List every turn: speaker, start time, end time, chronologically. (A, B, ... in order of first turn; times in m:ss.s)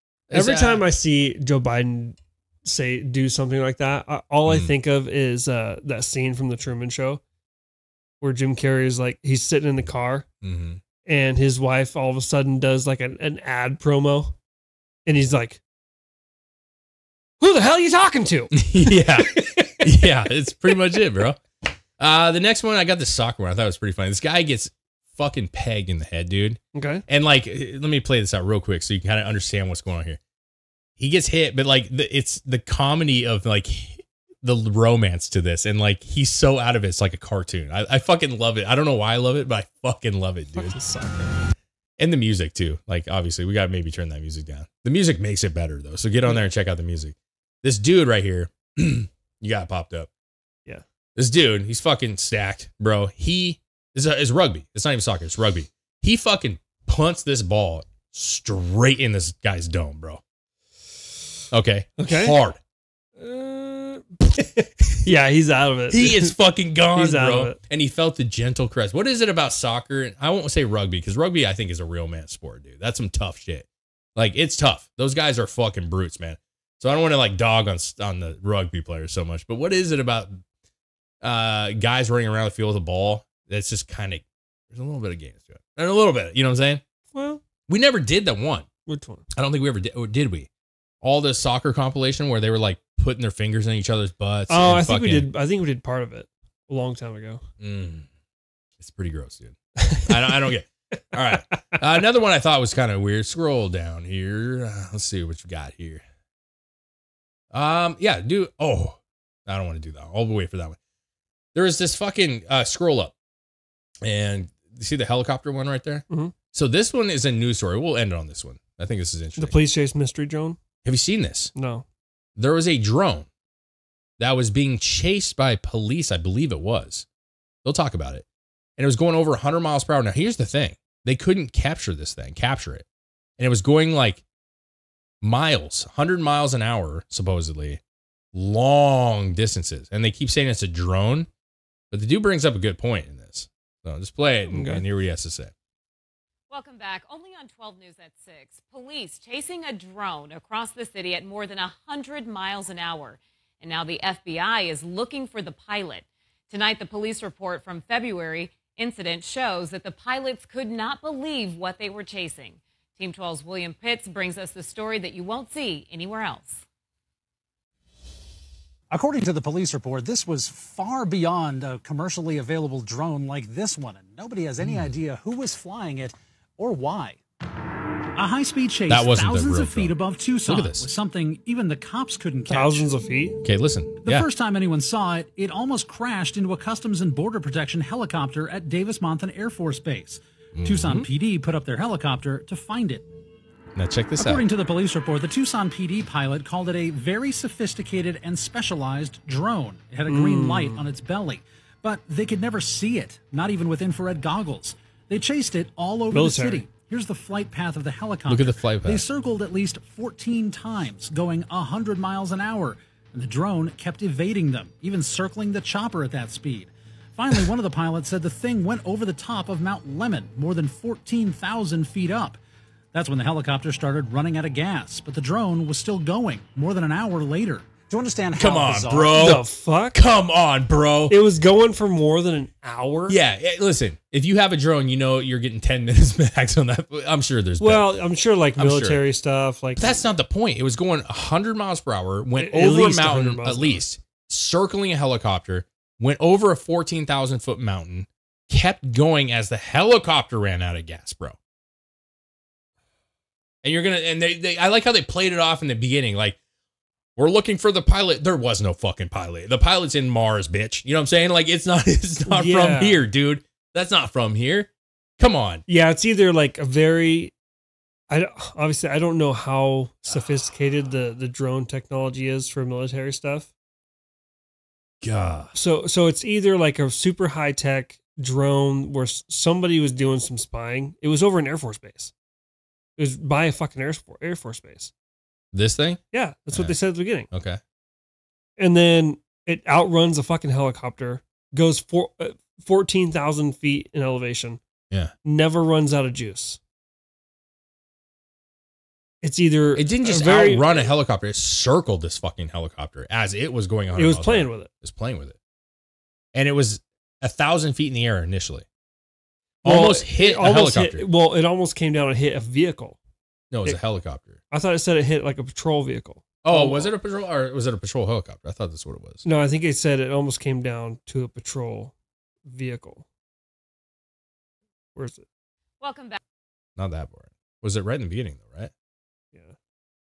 0:00.3-0:00.8 A
0:00.3-0:07.2 B
0:04.5-0:04.7 A
0:08.2-0:10.3 B
0:10.4-0:10.8 A
0:11.1-0:14.4 B
0:15.1-0:15.6 B
0:17.4-0:20.1 B
0:18.5-0:21.4 A
0:22.0-0:30.2 A
0:26.7-0:27.0 B
0:31.0-0:40.8 A
0:40.6-0:41.3 B
0:42.0-0:50.1 A
0:51.2-1:00.2 A
1:01.5-1:02.6 A
1:02.0-1:02.4 B
1:03.2-1:06.4 B
1:05.9-1:20.4 A
1:07.0-1:07.6 B
1:21.2-1:26.8 A
1:27.1-1:27.4 B
1:27.7-1:28.7 A
1:28.9-1:29.2 B
1:29.3-1:30.5 A
1:31.0-1:35.3 A
1:34.5-1:37.4 B
1:37.6-1:38.1 A
1:38.8-1:46.0 A
1:39.8-1:40.4 B
1:41.3-1:41.8 B
1:47.5-1:50.8 A
1:51.5-1:53.1 A
1:54.0-1:59.6 A
1:59.4-2:00.6 B
2:00.8-2:01.5 A
2:01.6-2:01.8 B
2:02.4-2:03.3 A
2:04.2-2:07.1 A
2:07.6-2:08.2 A
2:08.8-2:12.9 A
2:13.4-2:14.2 A
2:15.2-2:17.8 A
2:18.3-2:21.3 A
2:21.9-2:25.5 A
2:24.5-2:24.8 B
2:26.5-2:46.6 C
2:48.9-2:57.2 D
2:58.2-3:02.9 D
2:58.9-2:59.9 A
3:00.4-3:00.9 A
3:02.5-3:03.4 B
3:03.4-3:04.3 A
3:04.0-3:13.1 D
3:10.6-3:11.1 A
3:13.8-3:14.4 A
3:14.2-3:42.4 D
3:20.1-3:20.8 B
3:26.1-3:26.6 B
3:28.3-3:29.0 A
3:42.9-3:49.4 D
3:48.4-3:51.2 A
3:49.1-3:50.0 B
3:51.1-3:53.2 B
3:53.1-3:57.9 A
3:57.6-4:00.1 B
3:58.6-3:59.0 A
3:59.8-4:11.4 A
4:02.4-4:03.8 B
4:13.6-4:16.4 A
4:17.2-4:25.6 A
4:22.3-4:23.0 B
4:25.7-4:27.3 B
4:28.1-4:33.5 B
4:35.0-4:35.5 A
4:35.5-4:42.1 B
4:43.0-4:44.9 B
4:45.5-4:46.0 A
4:46.1-4:47.3 B
4:47.3-4:47.6 A
4:48.6-4:54.6 B
4:55.2-4:56.6 B
4:59.2-5:00.9 B
4:59.8-5:05.4 A
5:04.0-5:04.7 B
5:06.3-5:08.7 A
5:09.6-5:11.0 A
5:09.6-5:13.0 B
5:13.5-5:14.4 A
5:14.5-5:16.9 B
5:16.4-5:19.2 A
5:19.2-5:21.9 B
5:22.5-5:23.1 B
5:25.0-5:25.2 B
5:25.8-5:26.2 C
5:26.8-5:28.7 A